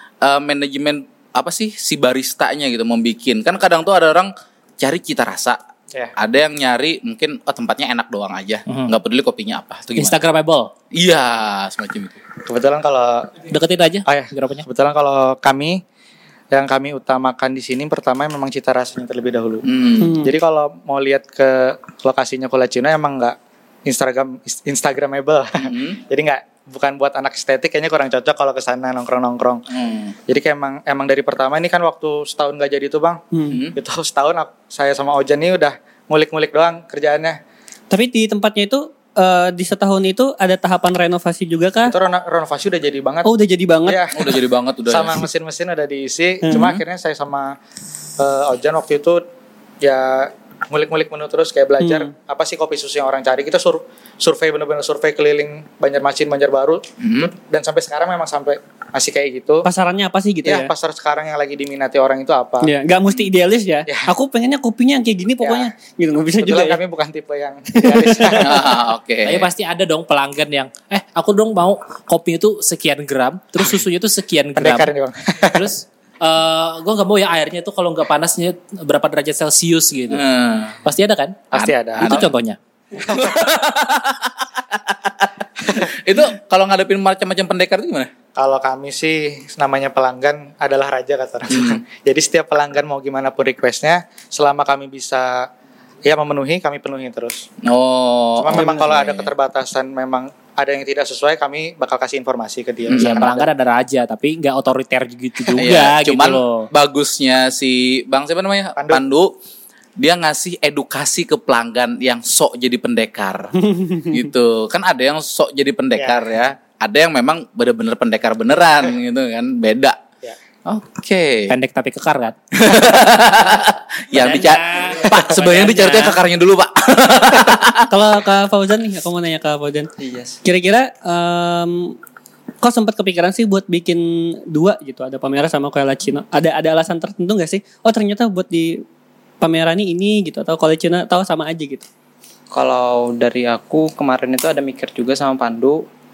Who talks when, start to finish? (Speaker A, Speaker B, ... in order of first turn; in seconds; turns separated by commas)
Speaker A: 0.2-5.6, Speaker A: 6.2-10.2, Speaker B: 8.7-8.9, Speaker B: 10.0-10.7, Speaker A: 10.9-12.2, Speaker C: 12.4-13.4, Speaker B: 13.5-14.7, Speaker C: 14.1-15.8, Speaker C: 16.5-19.6, Speaker A: 19.7-20.2, Speaker D: 20.0-20.3, Speaker C: 20.1-29.6, Speaker A: 25.6-26.0, Speaker A: 29.7-30.1, Speaker C: 30.2-33.2, Speaker D: 33.3-33.6, Speaker A: 33.5-33.8, Speaker C: 33.7-37.4, Speaker D: 37.9-42.0, Speaker C: 41.9-43.3, Speaker D: 43.2-44.0, Speaker C: 43.8-47.6, Speaker A: 44.1-45.2, Speaker A: 46.5-46.8, Speaker C: 48.2-49.2, Speaker C: 49.8-59.6, Speaker D: 51.8-52.1, Speaker A: 57.0-57.3, Speaker D: 59.6-60.7, Speaker C: 60.4-62.7, Speaker D: 62.6-66.8, Speaker C: 65.4-65.7, Speaker C: 66.4-68.7, Speaker D: 67.8-68.5, Speaker A: 68.4-69.5, Speaker B: 69.2-74.9, Speaker C: 74.5-75.7, Speaker B: 75.5-80.2, Speaker A: 80.1-80.8, Speaker B: 80.8-82.6, Speaker C: 81.5-82.2, Speaker A: 81.5-82.3, Speaker A: 83.0-88.1, Speaker C: 88.3-95.5, Speaker A: 91.5-91.8, Speaker C: 96.0-97.5, Speaker A: 97.6-99.3, Speaker C: 98.3-103.5, Speaker A: 102.9-103.4, Speaker B: 103.0-106.7, Speaker A: 105.5-109.3, Speaker C: 108.8-109.0, Speaker A: 110.0-120.0, Speaker D: 113.7-114.1, Speaker C: 116.0-116.3, Speaker A: 120.7-121.5, Speaker B: 121.5-122.3, Speaker A: 122.5-127.9, Speaker B: 124.1-126.2, Speaker D: 127.9-129.9, Speaker E: 130.0-130.4, Speaker D: 130.4-132.0, Speaker D: 132.6-138.8, Speaker D: 139.4-141.8, Speaker E: 142.5-145.8